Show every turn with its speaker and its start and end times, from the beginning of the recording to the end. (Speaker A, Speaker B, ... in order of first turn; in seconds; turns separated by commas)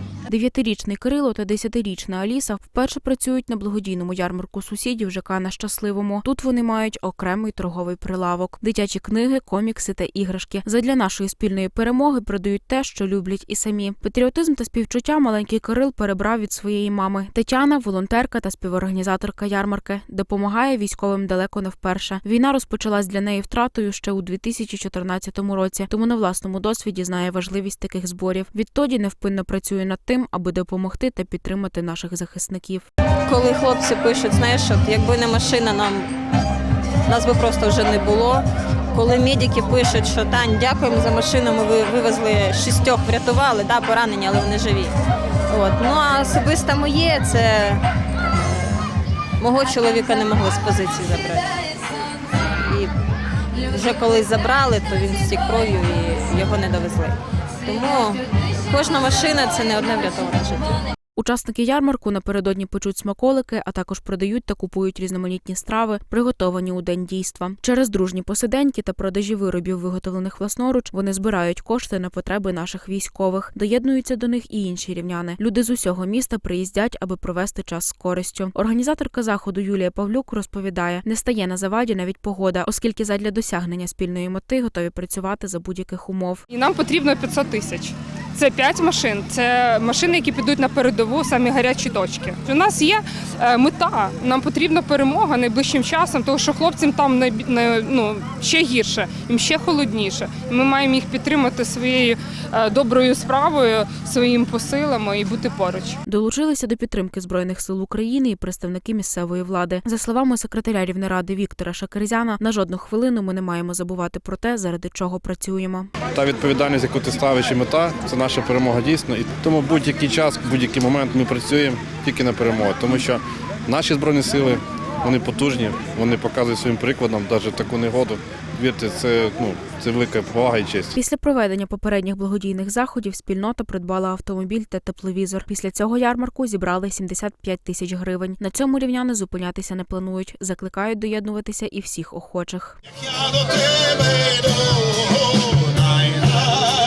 Speaker A: 0.3-32.9, Speaker B: 33.3-36.1, Speaker B: 37.1-44.9, Speaker B: 45.5-47.8, Speaker B: 49.4-51.4, Speaker B: 52.7-52.9, Speaker B: 53.7-60.8, Speaker A: 61.2-86.4, Speaker C: 86.5-106.0, Speaker A: 106.0-115.9, Speaker D: 116.1-130.9, Speaker A: 130.9-142.8